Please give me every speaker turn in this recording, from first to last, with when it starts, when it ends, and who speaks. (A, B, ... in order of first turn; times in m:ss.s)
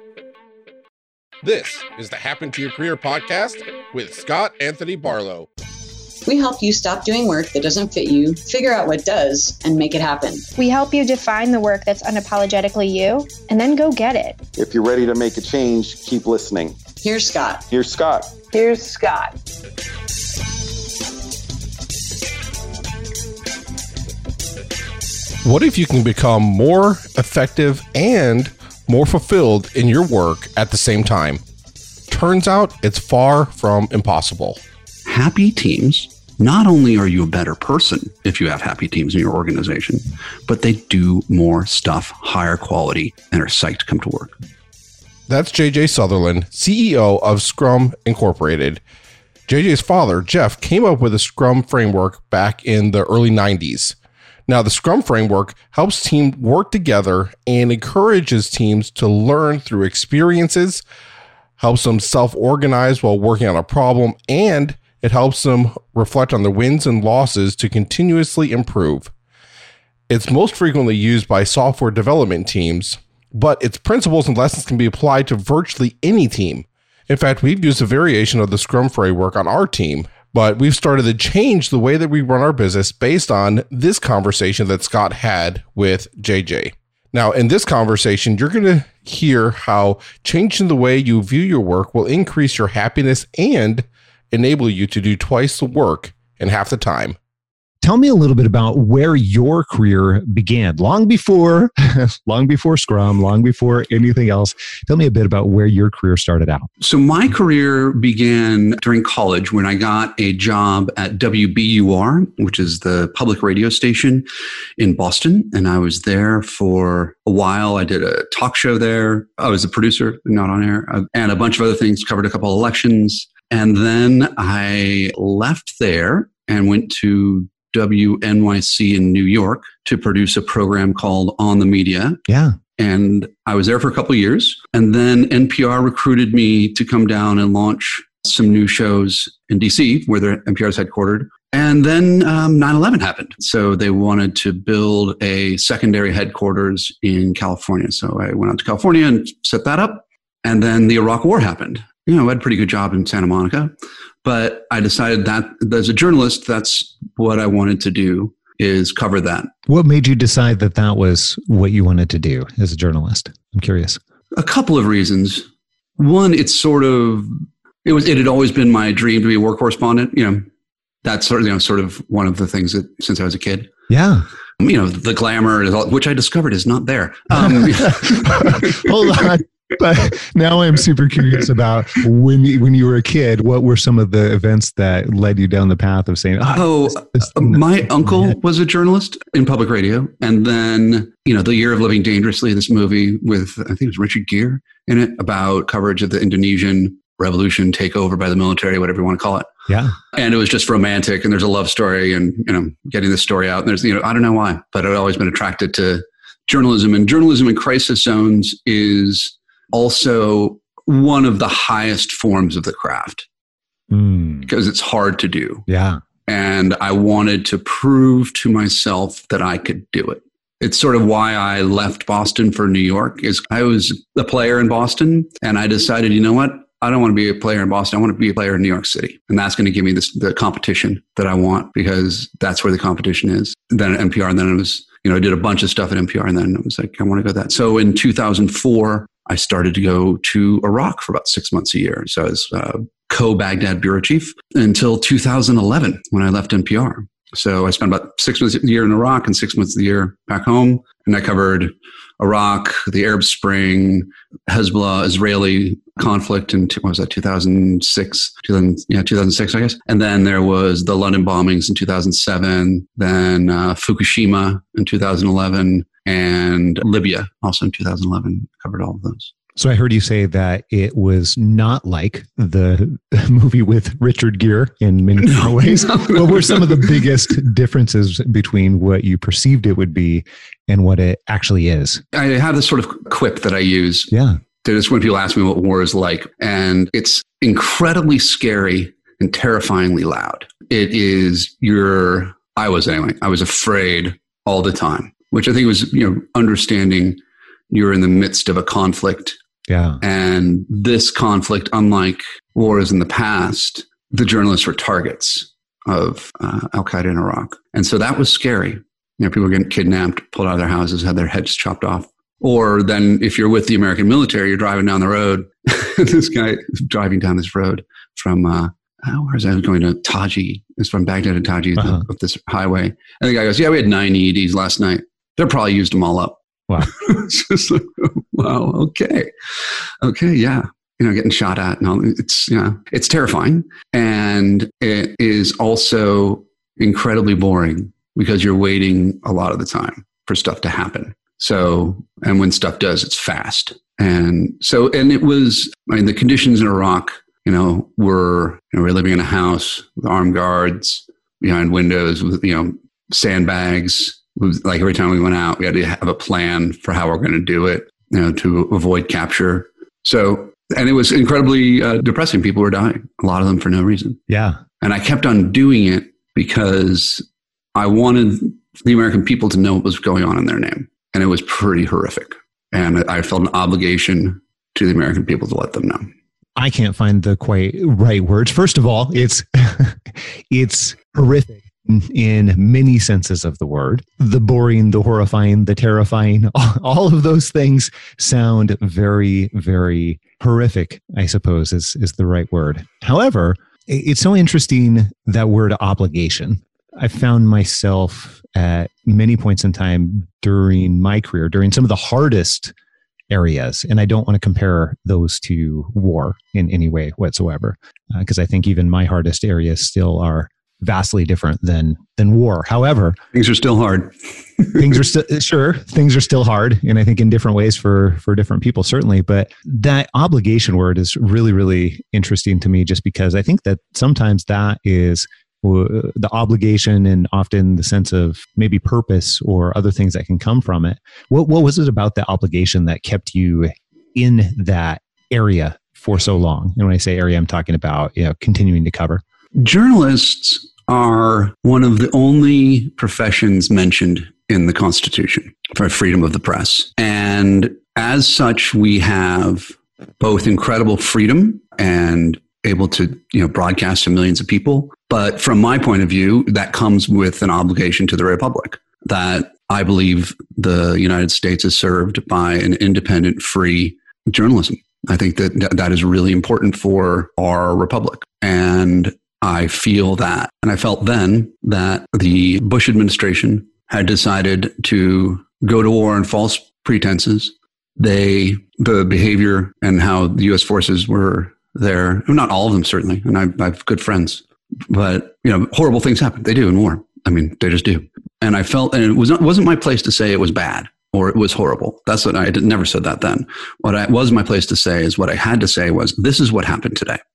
0:01.4-0:05.5 A
0:06.2-0:10.4 B
0:10.6-0:14.4 C
0:14.6-0:16.8 D
0:17.0-0:17.6 B
0:17.7-0:18.3 D
0:18.5-0:19.3 C
0:25.4-0:31.4 A
0:32.1-0:34.6 A
0:35.0-0:44.3 E
0:45.3-0:48.8 A
0:49.5-0:54.0 A
0:54.5-1:00.8 A
1:01.6-1:09.1 A
1:10.1-1:37.2 A
1:37.8-1:46.7 F
1:46.8-1:54.3 E
1:54.8-2:12.2 E
2:12.3-2:12.6 F
2:12.8-2:33.7 E
2:34.2-2:39.5 E
2:39.7-2:44.0 F
2:44.3-2:50.4 E
2:51.0-2:53.7 E
2:53.9-2:54.2 F
2:54.6-2:59.3 E
2:57.5-3:08.3 F
3:06.5-3:19.5 E
3:19.7-3:19.9 F
3:20.1-3:33.2 E
3:33.9-3:34.5 F
3:34.4-3:35.7 E
3:35.7-3:36.0 F
3:36.3-4:29.3 E
4:29.6-4:42.0 F
4:35.2-4:37.0 E
4:42.1-4:44.1 E
4:44.1-4:44.4 F
4:44.6-4:59.4 E
4:59.7-5:00.0 F
5:00.0-5:29.3 E
5:21.8-5:22.0 F
5:30.0-6:04.2 E
6:04.3-6:04.6 F
6:04.8-6:07.2 E
6:07.7-6:16.1 E
6:16.6-6:42.7 F
6:43.3-6:53.2 F
6:53.3-6:55.0 E
6:54.8-7:19.2 F
7:19.6-8:17.2 E